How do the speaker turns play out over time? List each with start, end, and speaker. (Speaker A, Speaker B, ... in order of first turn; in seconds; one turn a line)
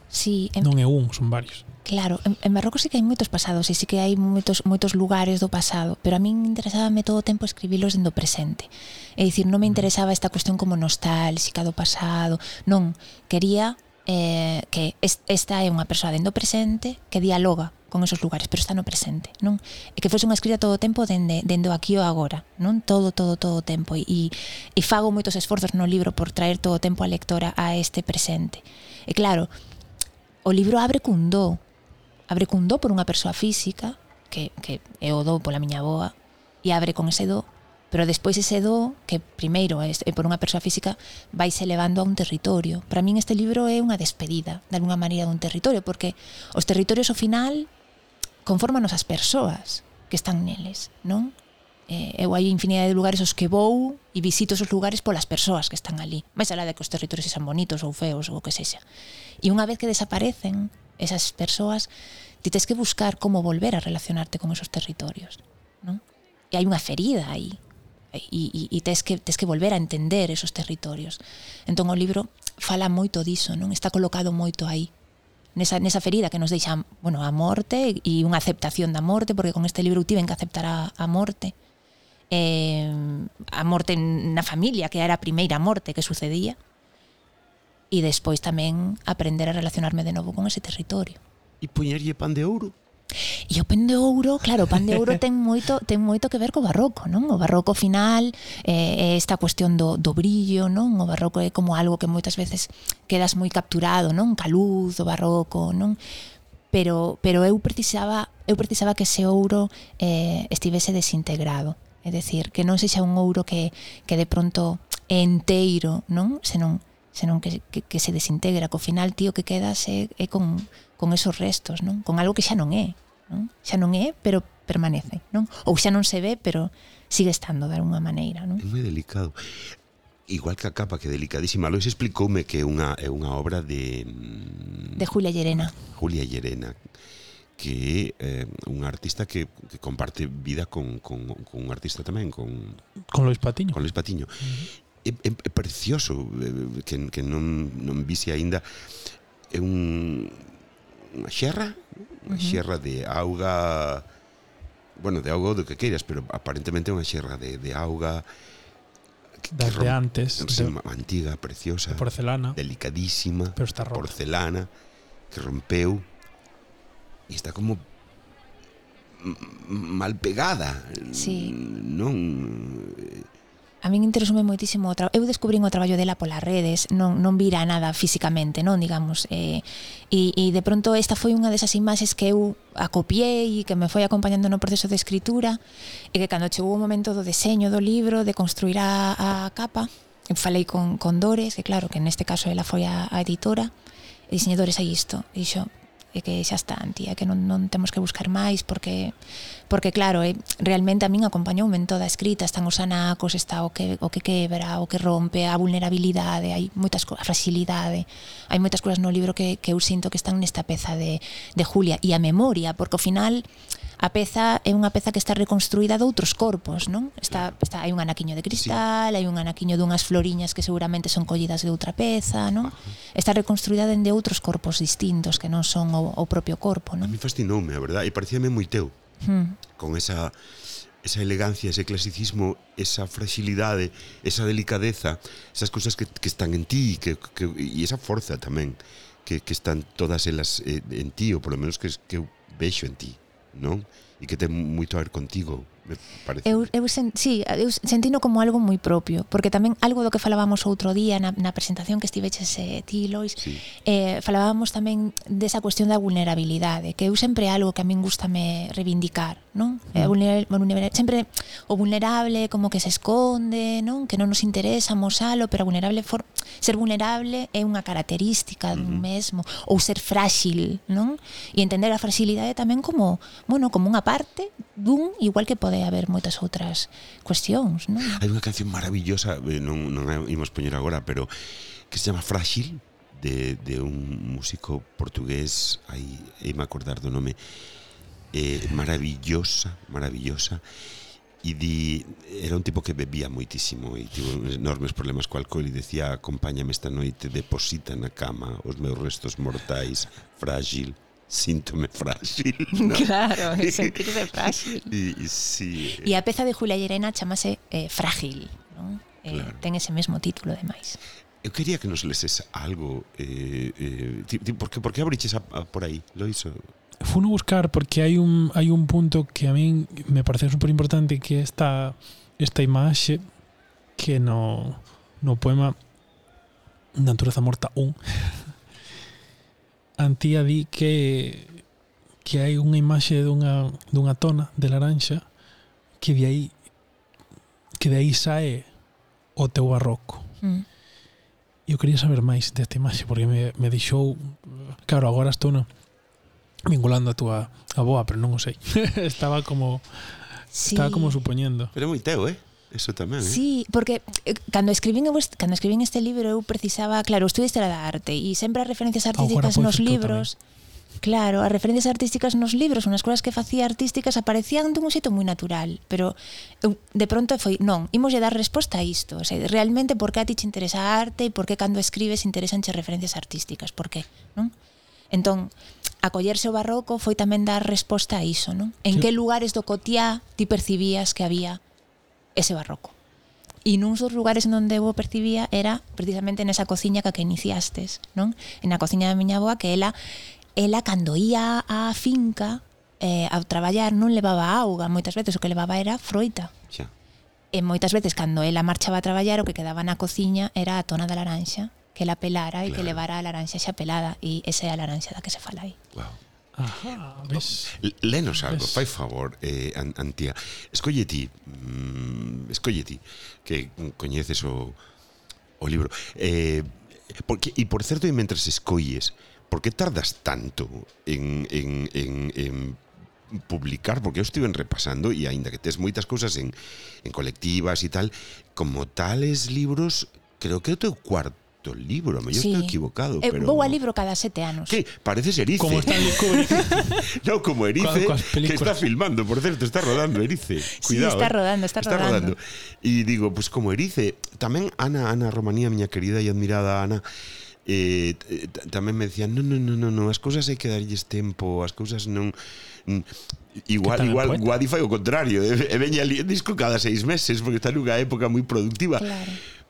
Speaker A: 0.1-0.7
Speaker B: 0.6-1.7
Speaker A: 1.9-29.5
Speaker A: 30.4-31.6
Speaker A: 32.3-47.7
Speaker A: 48.5-51.4
Speaker A: 51.9-58.8
Speaker A: 59.4-61.9
Speaker A: 62.4-67.6
Speaker A: 68.1-74.9
Speaker A: 75.6-81.5
Speaker A: 82.3-86.6
Speaker A: 87.9-91.2
Speaker C: 91.6-92.8
Speaker A: 93.5-106.0
Speaker A: 106.7-128.7
Speaker C: 128.6-129.7
Speaker C: 130.3-135.0
Speaker A: 135.0-135.7
Speaker C: 135.7-136.8
Speaker C: 137.6-142.8
Speaker B: 143.1-143.8
Speaker C: 143.7-144.5
Speaker C: 145.0-148.6
Speaker C: 149.5-154.1
Speaker A: 152.3-152.6
Speaker C: 155.0-158.3
Speaker C: 159.4-164.7
Speaker B: 159.5-160.8
Speaker B: 161.9-162.6
Speaker B: 163.6-164.1
Speaker C: 165.3-166.1
Speaker C: 167.3-167.8
Speaker C: 169.1-173.3
Speaker A: 171.1-171.6
Speaker A: 173.8-185.6
Speaker A: 186.1-193.7
Speaker A: 194.3-199.1
Speaker A: 199.7-213.5
Speaker A: 214.0-227.2
Speaker C: 218.5-218.8
Speaker C: 222.6-223.0
Speaker C: 227.0-228.9
Speaker A: 229.2-229.6
Speaker C: 229.7-230.3
Speaker C: 231.0-246.7
Speaker A: 246.4-278.2
Speaker C: 253.4-253.7
Speaker C: 268.7-269.1
Speaker C: 278.0-281.3
Speaker C: 281.9-287.4
Speaker C: 288.3-290.6
Speaker C: 291.4-306.2
Speaker A: 302.7-304.9
Speaker A: 306.0-311.0
Speaker C: 309.3-309.6
Speaker C: 311.4-316.7
Speaker B: 317.0-323.3
Speaker B: 324.0-325.8
Speaker B: 326.9-328.5
Speaker B: 330.0-331.6
Speaker B: 332.2-335.3
Speaker B: 336.0-336.6
Speaker B: 337.8-338.7
Speaker B: 339.4-340.3
Speaker B: 341.7-345.7
Speaker B: 346.7-351.7
Speaker A: 350.5-351.2
Speaker C: 351.7-353.4
Speaker A: 353.2-360.4
Speaker B: 359.2-360.3
Speaker A: 361.0-374.5
Speaker A: 375.1-381.6
Speaker A: 382.4-382.9
Speaker A: 383.6-390.0
Speaker A: 390.6-396.5
Speaker A: 397.5-405.8
Speaker C: 402.7-403.0
Speaker C: 405.9-406.2
Speaker B: 406.6-407.8
Speaker C: 406.7-414.8
Speaker B: 408.4-408.8
Speaker C: 415.6-433.8
Speaker A: 432.3-434.8
Speaker C: 434.7-447.0
Speaker B: 435.6-437.1
Speaker B: 437.8-438.8
Speaker A: 440.8-442.4
Speaker C: 447.6-459.1
Speaker B: 453.8-454.4
Speaker A: 459.0-459.4